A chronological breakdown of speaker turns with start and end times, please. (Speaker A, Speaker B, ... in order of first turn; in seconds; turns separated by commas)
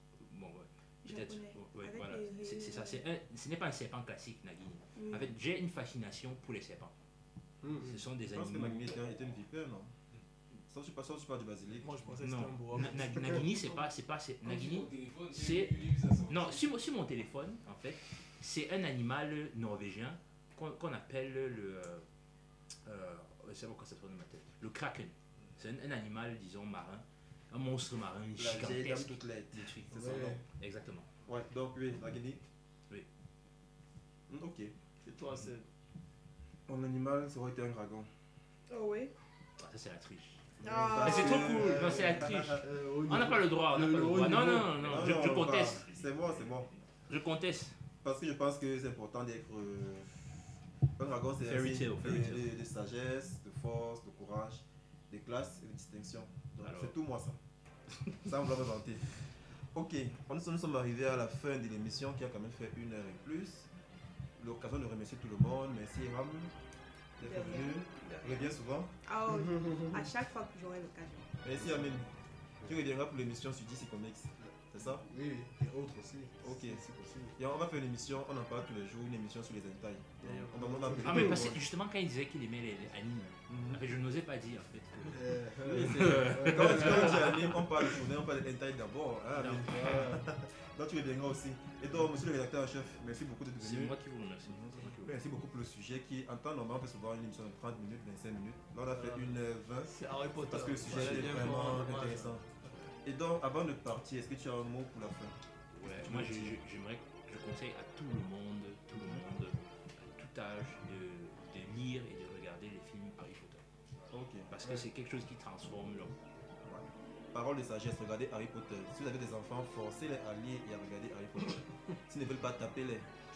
Speaker A: 0.2-6.9, Speaker B: 1.0-3.0, Speaker B: 5.0-5.3, Speaker C: 7.6-8.0, Speaker A: 7.8-8.9, Speaker D: 8.3-9.9, Speaker D: 10.7-12.1, Speaker E: 11.8-13.5, Speaker A: 12.2-22.1, Speaker C: 14.4-16.6, Speaker A: 22.9-31.1, Speaker D: 28.4-30.4, Speaker C: 29.9-30.4, Speaker D: 31.2-32.4, Speaker D: 34.3-34.7, Speaker E: 35.0-35.7, Speaker D: 36.7-38.1, Speaker B: 38.7-39.1, Speaker A: 39.6-40.4, Speaker C: 40.6-45.4, Speaker B: 40.6-41.5, Speaker D: 40.9-42.6, Speaker A: 41.0-47.8, Speaker D: 44.8-46.7, Speaker D: 48.0-50.1, Speaker D: 51.0-57.4, Speaker A: 51.4-52.5, Speaker A: 56.6-56.9, Speaker D: 58.2-63.7, Speaker D: 64.4-66.5, Speaker D: 67.2-68.9, Speaker B: 67.2-68.5, Speaker B: 69.0-71.3, Speaker C: 69.3-70.1, Speaker D: 71.4-72.1, Speaker C: 71.6-71.9, Speaker D: 72.6-75.0, Speaker C: 74.4-77.4, Speaker D: 76.4-76.8, Speaker D: 77.4-81.6, Speaker E: 80.2-81.0, Speaker C: 80.5-81.5, Speaker A: 81.0-87.6, Speaker D: 83.5-83.8, Speaker C: 85.1-87.4, Speaker D: 85.6-93.9, Speaker A: 89.3-90.1, Speaker C: 89.5-90.2, Speaker A: 93.6-95.2, Speaker D: 94.5-102.4, Speaker E: 98.9-99.4, Speaker E: 99.9-102.9, Speaker A: 100.9-101.5, Speaker D: 103.0-105.3, Speaker A: 105.7-113.6, Speaker D: 106.0-106.5, Speaker D: 114.1-114.5, Speaker A: 114.5-116.1, Speaker D: 116.7-123.1